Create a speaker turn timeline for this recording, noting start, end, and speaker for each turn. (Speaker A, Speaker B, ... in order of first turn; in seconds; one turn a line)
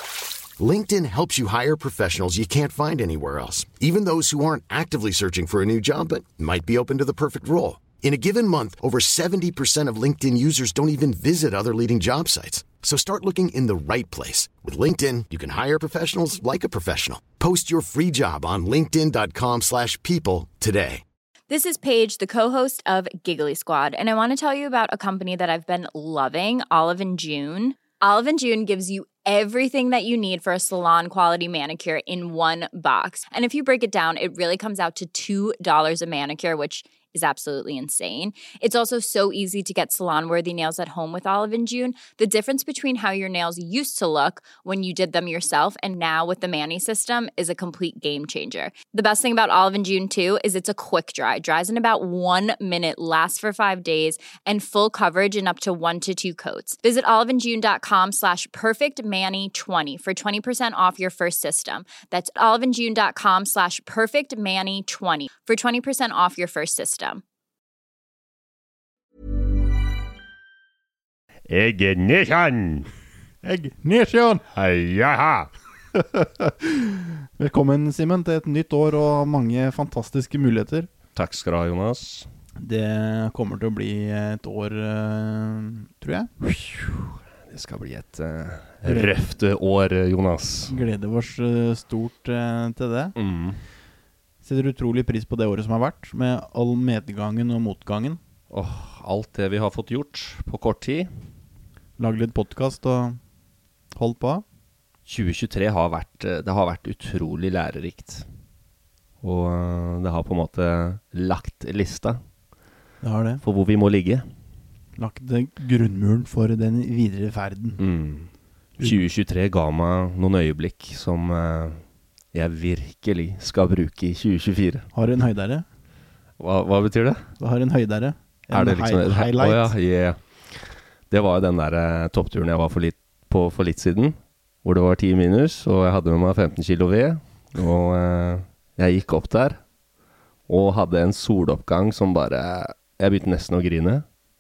Speaker A: 0.6-21.0
Speaker B: 21.5-67.2
Speaker C: 71.5-72.9
Speaker D: 73.4-74.4
Speaker C: 74.5-75.5
Speaker D: 75.9-80.9
Speaker C: 81.1-82.3
Speaker D: 82.6-86.3
Speaker C: 86.4-90.8
Speaker D: 88.8-89.1
Speaker D: 90.7-93.2
Speaker C: 93.2-93.6
Speaker D: 94.4-98.2
Speaker C: 98.5-101.1
Speaker D: 102.0-103.2
Speaker D: 103.9-104.4
Speaker C: 105.1-108.2
Speaker C: 109.2-112.2
Speaker D: 113.0-113.4
Speaker C: 113.4-114.2
Speaker D: 115.0-117.8
Speaker C: 117.8-121.8
Speaker C: 122.3-124.8
Speaker D: 124.9-125.7
Speaker C: 126.4-127.2
Speaker D: 127.4-129.7
Speaker C: 128.5-139.6
Speaker C: 140.5-144.0